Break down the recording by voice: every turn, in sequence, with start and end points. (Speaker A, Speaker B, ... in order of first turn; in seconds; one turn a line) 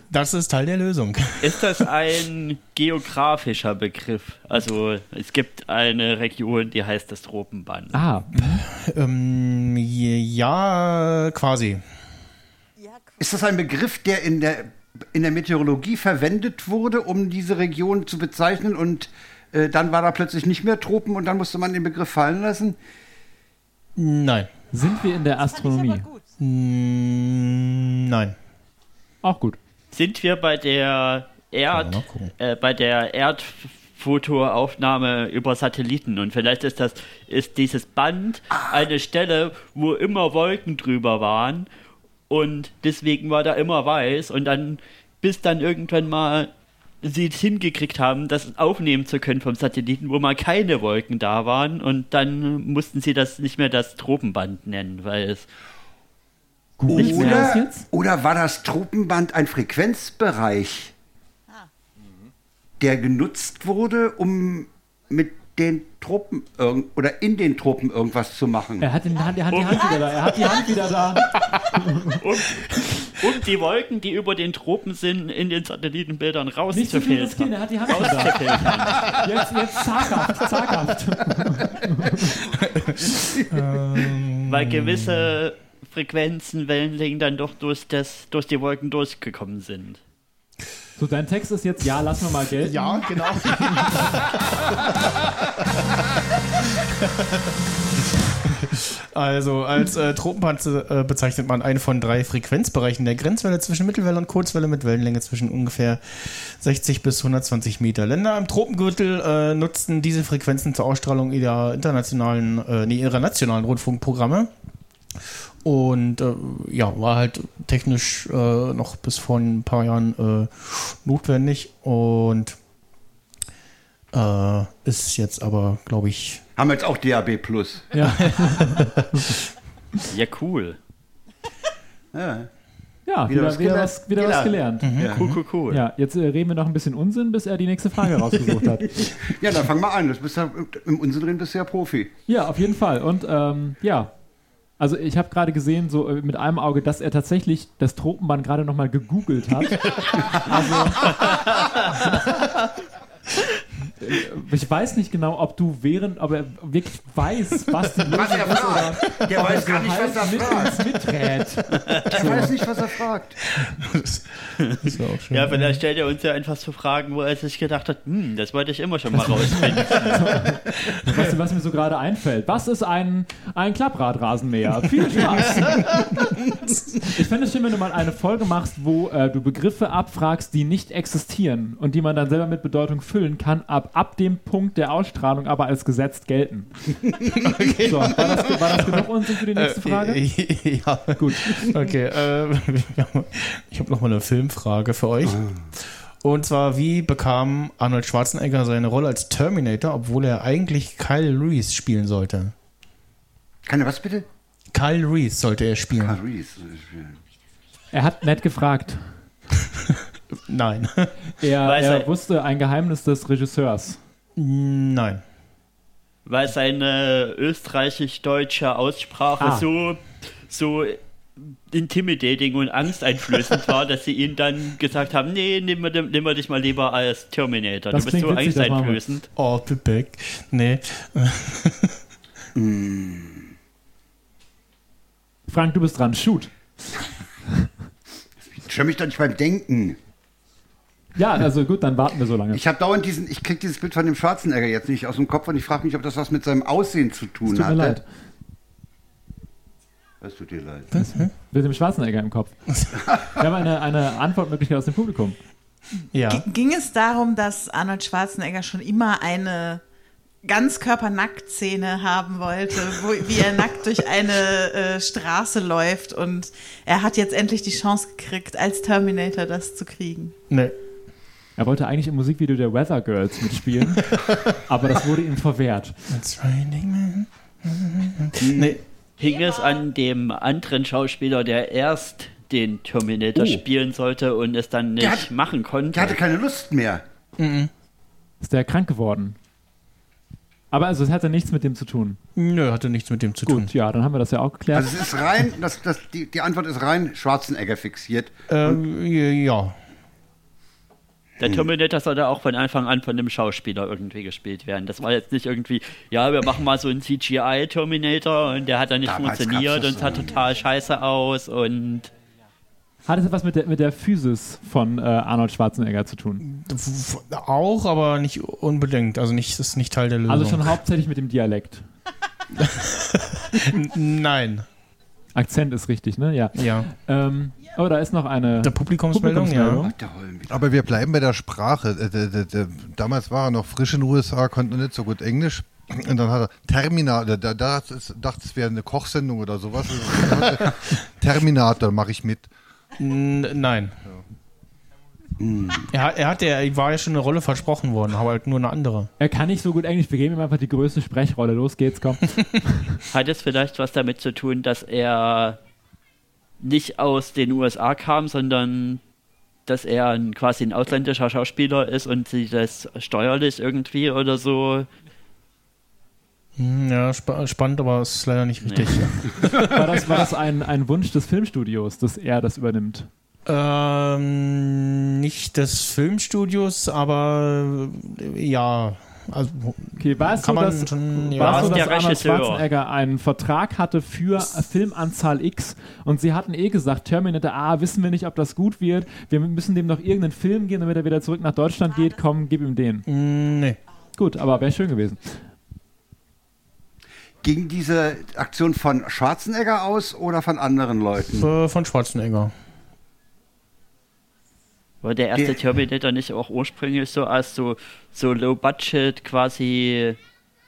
Speaker A: 0.1-1.9
Speaker B: 1.4-8.0
Speaker C: 7.9-8.6
Speaker A: 8.3-11.8
Speaker D: 12.8-13.2
Speaker E: 13.2-22.8
Speaker A: 24.0-24.5
Speaker C: 24.7-26.1
Speaker D: 25.4-26.2
Speaker A: 26.4-28.4
Speaker C: 29.2-29.6
Speaker B: 29.9-41.7
Speaker A: 31.7-32.3
Speaker B: 42.3-46.5
Speaker B: 47.0-55.5
Speaker C: 56.8-57.9
Speaker E: 56.9-60.9
Speaker B: 57.0-57.4
Speaker E: 62.8-68.9
Speaker C: 68.8-72.2
Speaker B: 69.5-70.0
Speaker B: 71.3-79.2
Speaker C: 76.7-82.4
Speaker A: 82.6-85.4
Speaker B: 84.5-90.0
Speaker C: 91.0-93.0
Speaker A: 92.6-95.1
Speaker A: 96.6-97.5
Speaker A: 98.4-114.5
Speaker A: 115.6-122.6
Speaker A: 124.1-126.4
Speaker E: 126.6-127.9
Speaker C: 127.9-129.3
Speaker A: 128.0-129.3
Speaker B: 130.1-130.8
Speaker E: 132.1-132.5
Speaker C: 133.1-134.9
Speaker E: 133.3-135.3
Speaker A: 134.8-135.4
Speaker B: 135.1-135.8
Speaker C: 135.7-139.0
Speaker E: 139.0-142.1
Speaker C: 142.3-144.1
Speaker C: 144.8-151.5
Speaker C: 154.0-162.5
Speaker E: 158.0-160.9
Speaker E: 162.1-163.4
Speaker A: 162.2-162.5
Speaker A: 163.4-165.8
Speaker B: 165.3-170.3
Speaker C: 169.1-176.2
Speaker C: 177.0-186.7
Speaker A: 187.4-195.4
Speaker C: 187.7-190.2
Speaker C: 191.2-191.6
Speaker E: 195.2-195.6
Speaker A: 196.2-202.5
Speaker E: 203.7-204.3
Speaker A: 204.7-206.2
Speaker E: 206.0-207.2
Speaker C: 207.9-209.1
Speaker A: 209.7-211.1
Speaker C: 211.4-214.0
Speaker B: 211.6-212.1
Speaker A: 214.4-215.2
Speaker B: 216.3-229.3
Speaker C: 219.4-219.7
Speaker C: 227.9-229.0
Speaker A: 229.4-232.0
Speaker E: 232.6-233.5
Speaker C: 235.5-236.5
Speaker E: 238.5-240.0
Speaker C: 241.2-242.6
Speaker E: 242.5-248.0
Speaker C: 247.5-248.0
Speaker E: 250.2-251.0
Speaker A: 250.9-251.3
Speaker C: 251.0-252.5
Speaker C: 253.3-255.4
Speaker A: 256.1-256.4
Speaker D: 256.3-259.8
Speaker D: 260.4-270.3
Speaker A: 270.5-270.8
Speaker C: 271.6-276.0
Speaker A: 276.1-278.8
Speaker E: 278.4-278.8
Speaker B: 279.2-286.2
Speaker E: 285.0-285.3
Speaker E: 285.9-287.0
Speaker A: 287.4-287.7
Speaker C: 288.4-289.4
Speaker C: 290.7-292.2
Speaker A: 292.4-293.7
Speaker C: 293.5-295.0
Speaker E: 294.7-298.8
Speaker A: 298.5-299.8
Speaker B: 301.4-312.1
Speaker E: 309.1-310.4
Speaker C: 313.1-316.4
Speaker A: 316.4-320.8
Speaker C: 320.3-321.9
Speaker A: 322.6-324.6
Speaker C: 325.4-329.9
Speaker A: 326.6-326.9
Speaker A: 328.6-329.9
Speaker E: 329.8-330.6
Speaker F: 330.5-342.5
Speaker A: 343.0-344.0
Speaker E: 345.4-345.9
Speaker A: 345.9-349.1
Speaker C: 349.2-353.0
Speaker B: 353.1-355.6
Speaker B: 356.6-359.0
Speaker B: 359.7-364.9
Speaker A: 366.6-369.8
Speaker B: 368.6-369.4
Speaker C: 369.6-373.1
Speaker A: 373.5-381.9
Speaker C: 380.0-393.1
Speaker B: 381.4-382.6
Speaker A: 393.1-393.8
Speaker C: 394.1-395.4
Speaker E: 397.4-401.5
Speaker A: 401.3-402.5
Speaker B: 405.0-410.2